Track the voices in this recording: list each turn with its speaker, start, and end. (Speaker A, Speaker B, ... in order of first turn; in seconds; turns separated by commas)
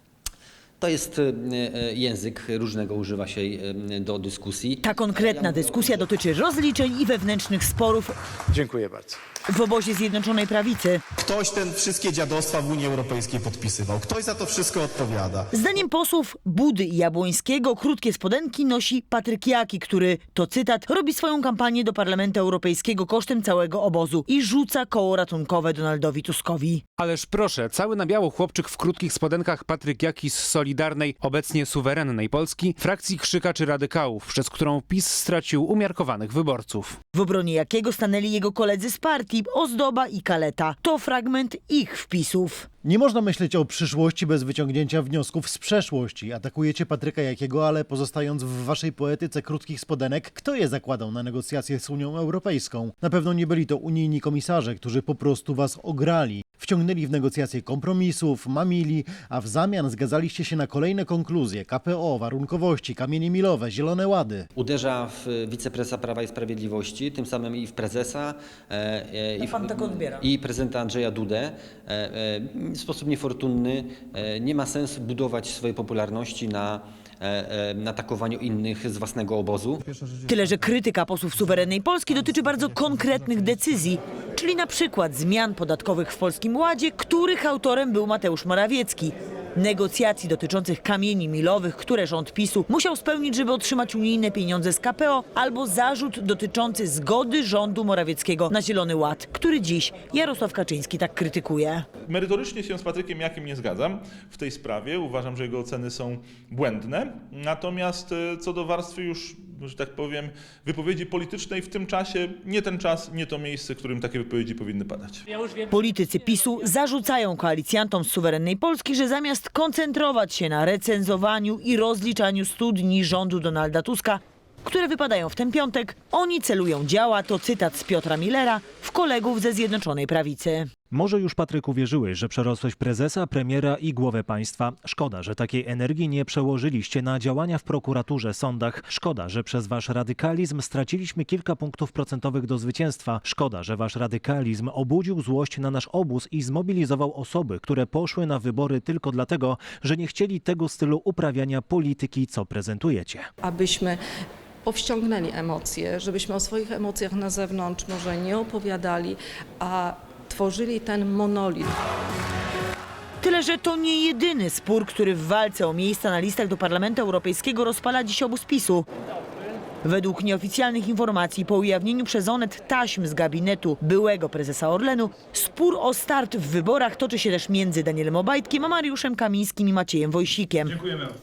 Speaker A: 0.8-6.1, Speaker B: 4.8-8.1, Speaker B: 9.5-11.0, Speaker C: 11.2-15.4, Speaker B: 15.5-26.8, Speaker D: 27.0-37.0, Speaker B: 37.1-42.7, Speaker E: 42.8-64.5, Speaker A: 64.6-79.8, Speaker B: 69.4-70.2, Speaker B: 80.2-101.8, Speaker F: 102.1-115.2, Speaker B: 115.7-130.7, Speaker G: 130.9-153.3, Speaker H: 153.4-154.0, Speaker H: 154.6-161.7, Speaker B: 163.2-168.8, Speaker B: 169.8-180.9